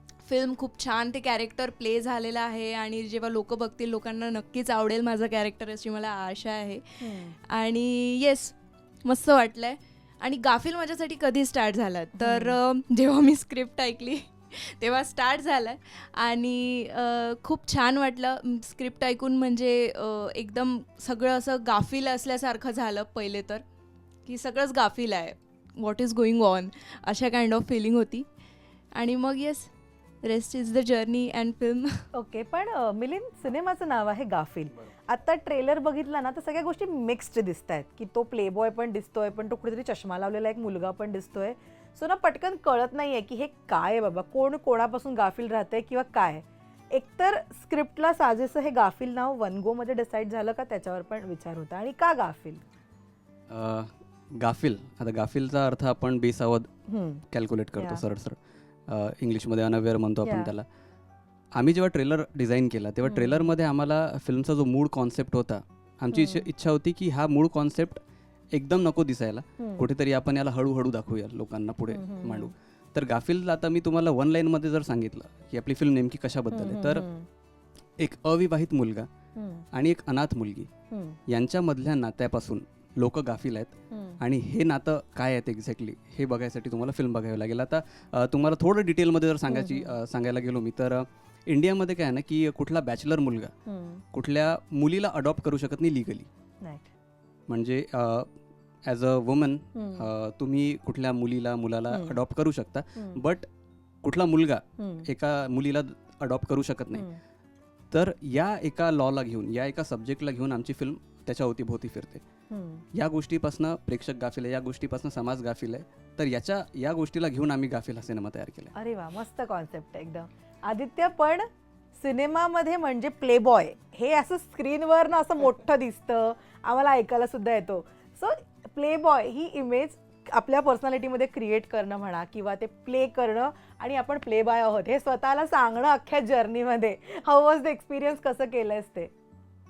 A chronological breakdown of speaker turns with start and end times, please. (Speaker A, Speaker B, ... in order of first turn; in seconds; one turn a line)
Speaker A: 0.2-23.6
Speaker B: 7.0-7.3
Speaker B: 12.2-12.6
Speaker A: 24.2-28.3
Speaker A: 28.9-29.7
Speaker A: 30.2-32.0
Speaker B: 32.1-52.6
Speaker C: 53.5-56.7
Speaker B: 56.9-57.2
Speaker C: 57.3-60.6
Speaker B: 57.8-58.0
Speaker B: 60.2-60.5
Speaker C: 61.5-68.0
Speaker B: 63.0-63.5
Speaker B: 66.1-66.4
Speaker C: 68.5-77.0
Speaker B: 69.6-69.8
Speaker B: 71.9-72.5
Speaker B: 76.5-77.2
Speaker C: 78.0-79.1
Speaker B: 79.3-79.6
Speaker C: 79.7-80.7
Speaker B: 80.9-81.2
Speaker C: 81.3-93.5
Speaker B: 83.9-84.2
Speaker B: 89.5-89.9
Speaker B: 93.7-94.0
Speaker C: 94.1-96.3
Speaker C: 97.5-98.3
Speaker C: 98.8-103.5
Speaker B: 99.7-100.0
Speaker B: 101.9-102.2
Speaker C: 104.0-107.0
Speaker B: 104.8-105.1
Speaker C: 107.9-112.2
Speaker B: 112.5-112.8
Speaker C: 112.9-118.7
Speaker B: 118.7-139.1